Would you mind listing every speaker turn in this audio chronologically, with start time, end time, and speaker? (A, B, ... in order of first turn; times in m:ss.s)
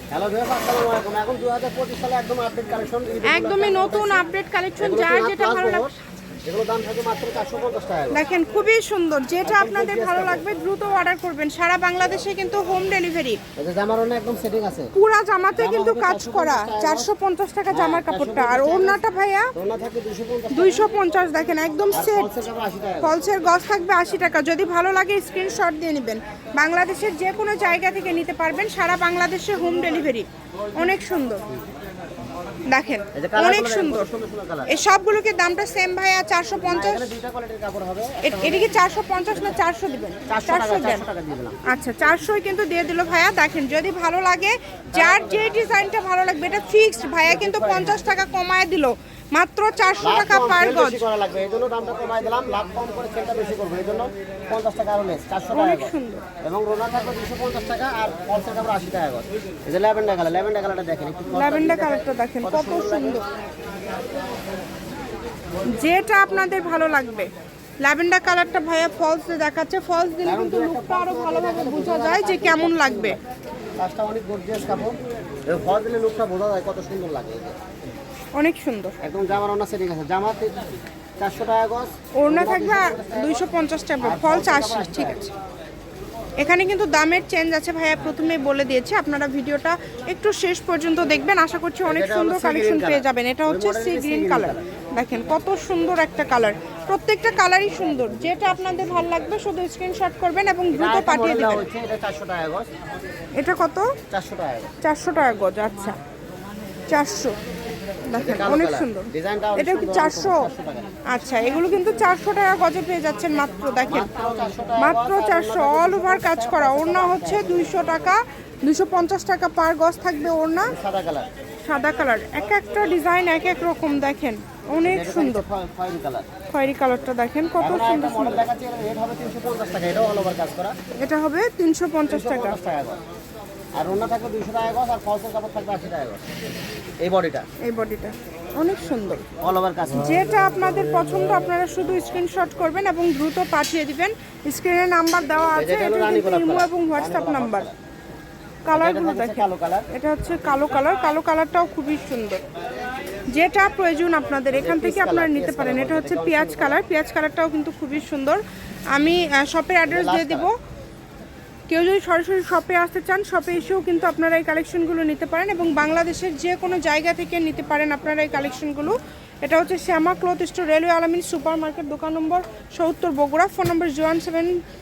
0:00.1-0:04.2 A
0:03.2-0:05.9 B
0:04.8-0:05.9 A
0:06.4-0:08.2 A
0:08.1-0:13.4 B
0:09.4-0:10.4 A
0:13.6-0:14.9 A
0:14.9-0:19.5 B
0:15.5-0:17.1 A
0:17.7-0:19.0 A
0:19.5-0:20.9 A
0:20.5-0:22.3 B
0:21.9-0:23.2 A
0:23.0-0:31.4 B
0:32.7-0:34.1 B
0:33.1-0:34.8 A
0:34.7-0:37.1 B
0:36.6-0:38.7 A
0:38.2-0:41.0 B
0:40.3-0:41.6 A
0:41.6-0:51.0 B
0:44.9-0:45.5 A
0:47.2-0:48.0 A
0:50.0-1:03.2 A
0:55.5-0:56.2 B
1:01.3-1:03.2 B
1:05.7-1:07.3 B
1:07.8-1:13.2 B
1:10.2-1:13.2 A
1:13.8-1:17.6 A
1:18.3-1:19.0 B
1:19.0-1:20.6 A
1:21.2-1:23.4 A
1:22.2-1:25.3 B
1:24.0-1:25.2 A
1:26.4-1:41.6 B
1:31.8-1:34.6 A
1:40.7-1:42.7 A
1:43.4-1:43.9 B
1:44.1-1:44.7 A
1:44.8-1:46.0 B
1:46.9-1:47.3 B
1:48.1-1:50.5 B
1:48.1-1:50.9 A
1:51.1-1:54.1 B
1:53.9-1:57.7 A
1:54.8-2:00.7 B
2:00.6-2:01.3 A
2:01.6-2:05.4 B
2:04.8-2:06.3 A
2:06.5-2:08.5 B
2:07.6-2:10.7 A
2:11.0-2:12.6 B
2:12.1-2:13.0 A
2:13.8-2:16.2 A
2:17.0-2:17.4 A
2:17.6-2:19.2 B
2:19.4-2:20.2 A
2:19.9-2:27.7 B
2:25.5-2:27.7 A
2:28.6-2:32.4 B
2:28.7-2:29.9 A
2:33.3-2:38.4 B
2:34.6-2:36.8 A
2:38.9-2:40.5 B
2:39.8-2:40.5 A
2:41.7-2:54.6 B